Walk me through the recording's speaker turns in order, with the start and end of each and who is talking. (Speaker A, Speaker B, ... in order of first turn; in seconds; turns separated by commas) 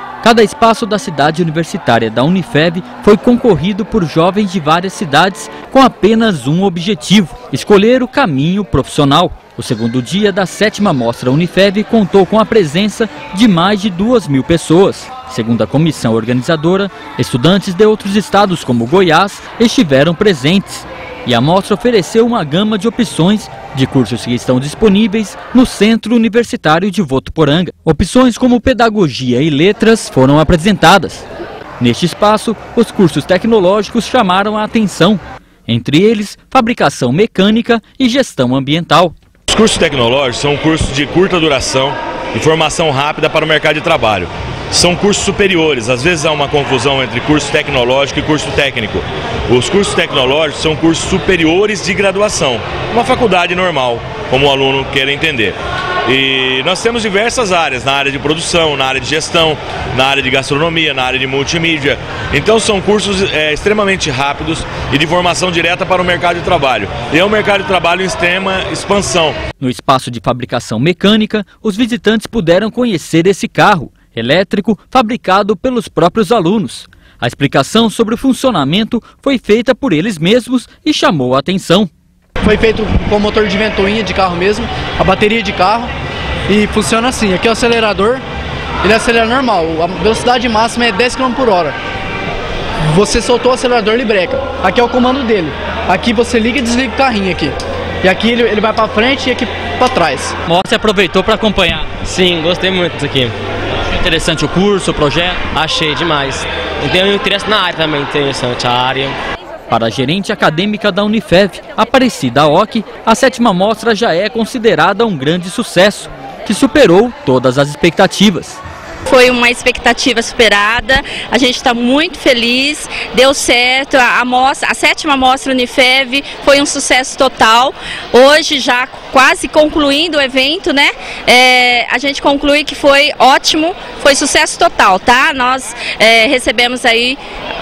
Speaker A: 0.2-31.2, Speaker A: 31.8-39.1, Speaker B: 39.5-69.4, Speaker A: 69.6-81.9, Speaker C: 82.4-85.9, Speaker C: 86.5-88.2, Speaker C: 88.8-91.8, Speaker C: 92.8-100.3, Speaker A: 100.5-101.9, Speaker D: 102.0-103.4, Speaker A: 103.9-105.5, Speaker D: 105.5-109.2, Speaker A: 109.7-118.6, Speaker E: 119.1-137.2